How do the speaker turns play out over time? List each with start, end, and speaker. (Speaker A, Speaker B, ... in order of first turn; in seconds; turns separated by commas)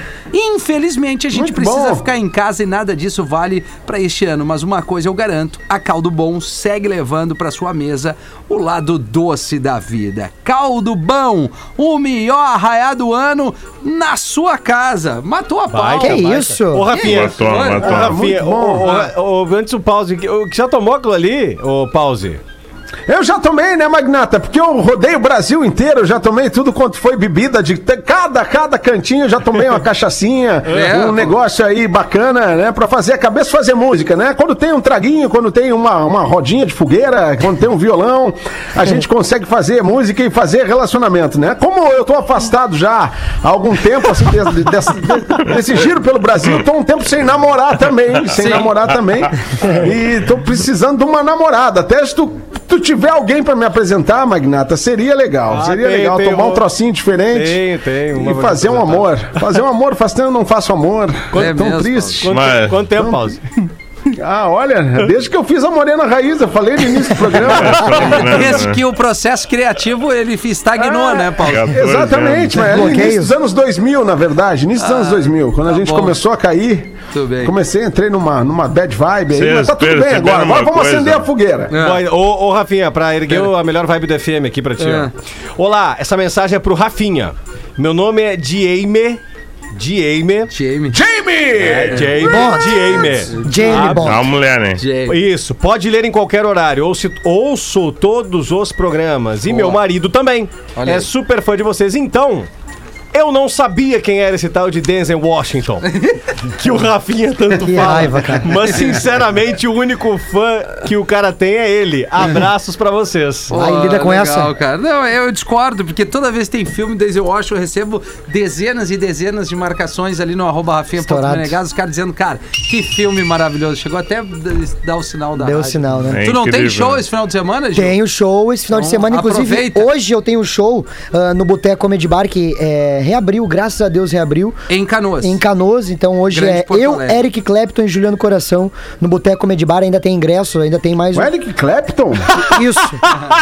Speaker A: 0.3-16.3, Speaker B: 1.3-2.0, Speaker C: 15.7-22.4, Speaker D: 16.0-16.9, Speaker E: 16.9-18.2, Speaker A: 16.9-17.9, Speaker B: 17.8-19.0, Speaker A: 18.8-19.1, Speaker B: 23.1-57.6, Speaker C: 30.7-31.3, Speaker A: 30.7-31.4, Speaker A: 48.3-48.8, Speaker C: 55.5-56.6, Speaker C: 57.3-59.4, Speaker B: 58.1-62.4, Speaker A: 61.3-62.3, Speaker C: 62.2-63.4, Speaker E: 62.3-62.9, Speaker B: 63.0-63.4, Speaker B: 64.1-68.4, Speaker E: 67.4-68.8, Speaker A: 68.1-71.8, Speaker B: 70.8-81.7, Speaker E: 71.4-72.7, Speaker D: 72.6-73.3, Speaker A: 74.8-76.2, Speaker A: 77.1-77.5, Speaker E: 79.3-81.3, Speaker A: 81.7-82.0, Speaker C: 81.8-89.2, Speaker A: 84.8-85.1, Speaker C: 89.7-90.5, Speaker A: 90.5-91.0, Speaker B: 90.9-92.6, Speaker C: 91.6-94.0, Speaker A: 91.9-92.3, Speaker D: 92.2-94.3, Speaker A: 93.0-94.2, Speaker E: 94.0-94.8, Speaker A: 94.8-95.2, Speaker C: 95.1-102.5, Speaker A: 99.5-99.8, Speaker A: 100.8-101.1, Speaker C: 103.1-105.9, Speaker A: 105.8-106.2, Speaker C: 106.4-113.6, Speaker D: 107.6-108.7, Speaker A: 113.5-128.0, Speaker D: 113.5-114.5, Speaker D: 121.0-121.6, Speaker D: 125.4-126.2, Speaker E: 126.0-127.0, Speaker D: 127.8-134.6, Speaker A: 128.7-129.9, Speaker A: 134.7-135.4, Speaker D: 135.2-141.3, Speaker A: 136.3-137.2, Speaker B: 141.1-142.4, Speaker D: 142.4-143.1